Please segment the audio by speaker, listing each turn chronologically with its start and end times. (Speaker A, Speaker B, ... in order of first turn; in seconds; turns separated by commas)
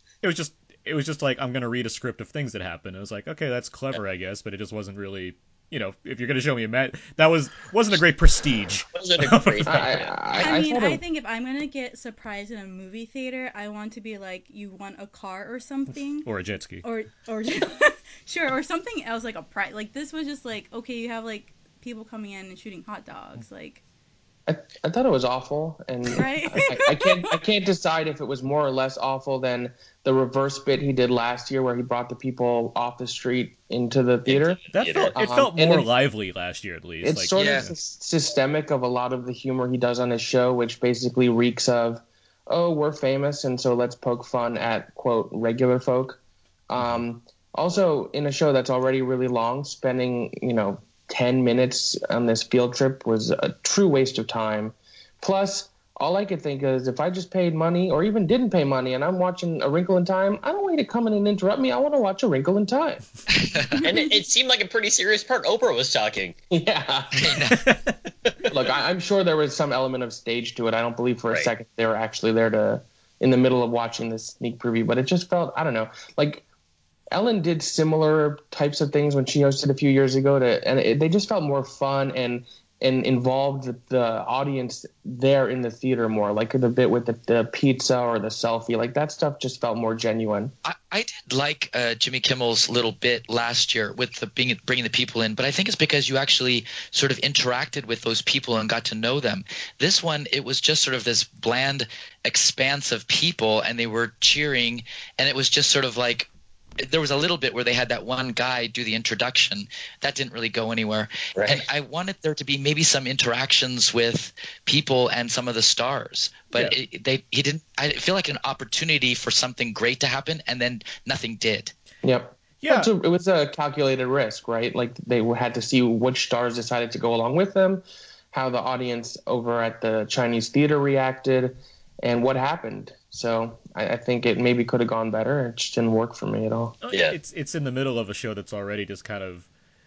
Speaker A: 0.2-9.9, Speaker B: 8.9-10.5, Speaker C: 9.7-11.0, Speaker D: 10.4-16.3, Speaker A: 16.2-16.8, Speaker D: 16.8-23.8, Speaker C: 24.5-34.6, Speaker D: 26.1-27.3, Speaker B: 34.2-35.2, Speaker A: 34.7-37.7, Speaker C: 35.1-35.9, Speaker C: 37.0-63.0, Speaker E: 37.3-37.7, Speaker E: 63.3-63.8, Speaker D: 63.8-64.1, Speaker B: 63.8-66.3, Speaker C: 66.5-67.4, Speaker E: 67.2-67.6, Speaker A: 67.6-68.0, Speaker C: 68.5-76.4, Speaker C: 77.1-90.5, Speaker E: 90.6-106.3, Speaker E: 106.8-121.7, Speaker B: 111.3-111.6, Speaker C: 122.0-136.8, Speaker A: 122.6-122.9, Speaker A: 136.8-139.5, Speaker B: 136.9-137.2